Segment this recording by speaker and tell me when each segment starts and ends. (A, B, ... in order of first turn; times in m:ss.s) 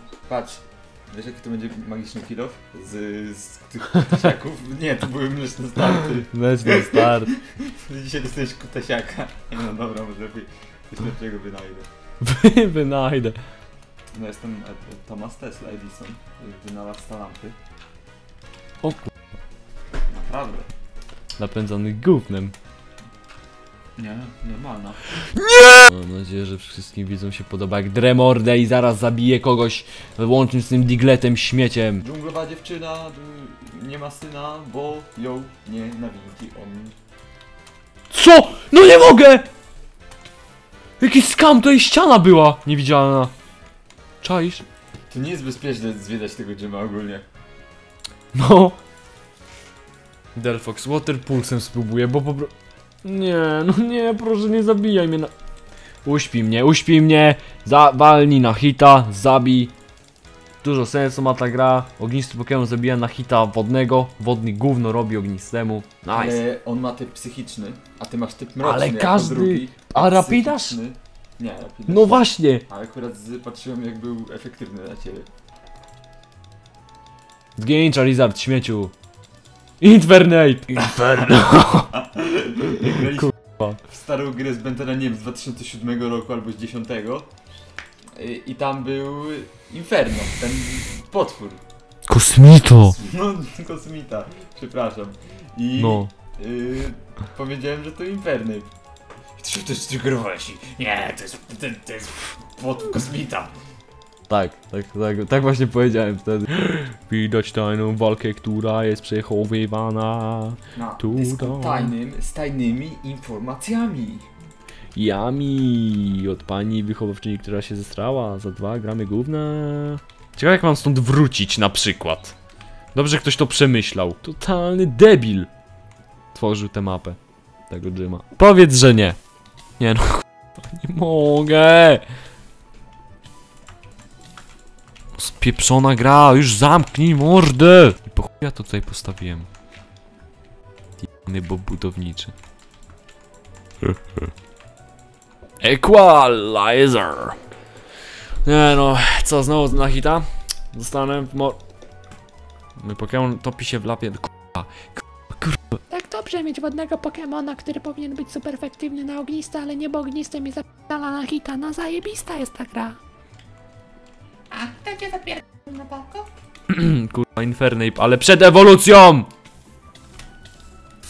0:00.3-0:11.9 A
0:06.3-0:07.3 B
0:12.2-0:13.4 B
0:14.1-0:17.6 A
0:18.8-0:19.1 B
0:20.1-0:20.7 A
0:21.4-0:22.5 B
0:24.0-0:25.0 A
0:25.5-0:32.0 B
0:32.0-0:36.9 A
0:38.1-0:39.5 B
0:41.0-0:43.3 B
0:44.2-0:44.6 B
0:45.1-0:47.3 A
0:48.3-0:48.8 B
0:50.3-0:52.5 B
0:53.0-0:55.3 B
0:56.0-0:59.7 B
1:00.6-1:06.4 B
1:06.1-1:15.3 A
1:08.6-1:10.8 B
1:11.9-1:12.6 B
1:17.6-1:18.9 B
1:19.8-1:21.9 B
1:21.9-1:27.3 A
1:23.2-1:23.7 B
1:28.2-1:31.6 A
1:32.1-1:33.0 B
1:32.8-1:38.7 A
1:35.8-1:36.1 B
1:39.4-1:43.5 A
1:44.3-1:51.9 B
1:50.7-1:54.3 A
1:54.9-2:02.3 B
2:02.9-2:05.5 B
2:06.3-2:07.2 B
2:07.7-2:09.2 B
2:09.8-2:12.0 B
2:15.2-2:19.5 B
2:21.0-2:22.3 B
2:25.6-2:27.4 B
2:28.4-2:31.6 B
2:32.8-2:35.8 B
2:35.9-2:43.0 C
2:44.5-2:46.3 C
2:46.7-2:49.3 B